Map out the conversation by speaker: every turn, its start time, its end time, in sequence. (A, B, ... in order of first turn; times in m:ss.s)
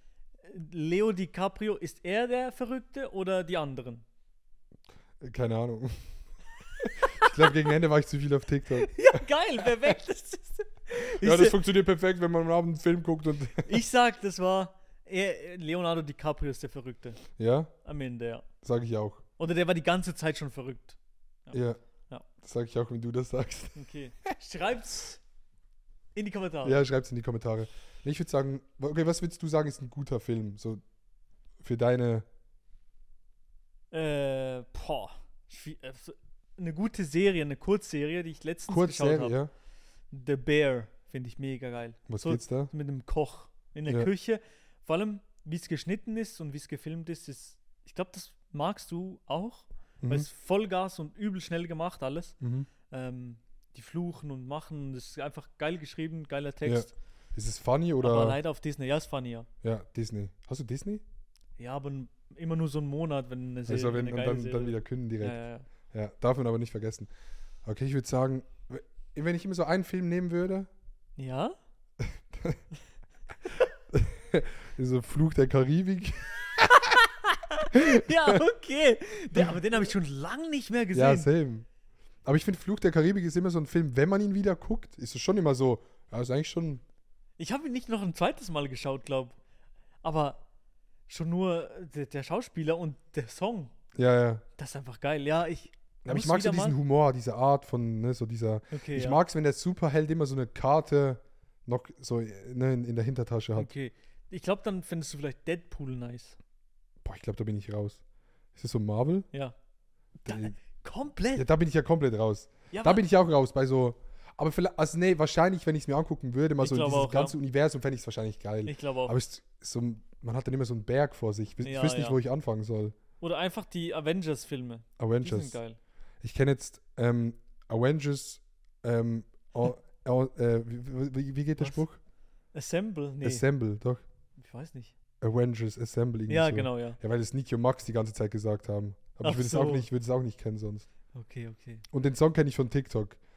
0:00.5-0:04.0 A
0:05.2-0:06.1 B
0:06.8-0:07.5 A
0:06.8-0:09.2 B
0:08.8-0:11.6 A
0:11.2-0:13.8 B
0:13.6-0:17.2 A
0:17.4-0:17.7 B
0:17.8-0:18.5 A
0:18.6-0:19.3 B
0:19.4-0:22.2 A
0:21.5-0:21.8 B
0:22.4-0:23.8 B
0:23.8-0:25.2 A
0:26.2-0:26.8 A
0:26.6-0:30.8 B
0:31.6-0:32.3 B
0:33.9-0:39.4 A
0:38.7-0:39.5 B
0:40.1-0:52.4 A
0:42.1-0:42.7 B
0:50.0-0:50.3 B
0:52.4-0:52.7 B
0:52.9-0:56.9 A
0:56.6-0:58.4 B
0:58.0-0:59.5 A
0:59.6-1:01.0 B
1:01.6-1:05.7 A
1:03.7-1:05.4 B
1:05.9-1:07.1 B
1:07.6-1:10.7 B
1:11.2-1:11.6 A
1:12.0-1:12.6 B
1:13.9-1:17.0 B
1:16.8-1:21.3 A
1:17.7-1:18.4 B
1:20.9-1:21.7 B
1:22.2-1:26.8 B
1:27.4-1:29.4 A
1:30.0-1:30.4 A
1:31.1-1:33.7 A
1:34.0-1:34.4 B
1:34.6-1:36.8 A
1:36.0-1:43.7 B
1:38.7-1:39.2 A
1:43.6-1:46.4 A
1:47.0-1:48.0 B
1:48.6-1:49.3 B
1:50.2-1:51.5 A
1:50.3-1:50.6 B
1:51.4-2:03.0 B
1:52.7-1:53.0 A
1:56.6-1:57.4 A
1:58.7-1:59.2 A
2:01.6-2:02.2 A
2:03.2-2:05.8 A
2:05.0-2:05.6 B
2:06.2-2:12.0 B
2:12.5-2:13.4 A
2:13.2-2:14.0 B
2:14.4-2:14.9 A
2:15.2-2:20.9 B
2:16.3-2:17.0 A
2:19.2-2:19.9 A
2:21.1-2:21.8 A
2:21.9-2:23.2 B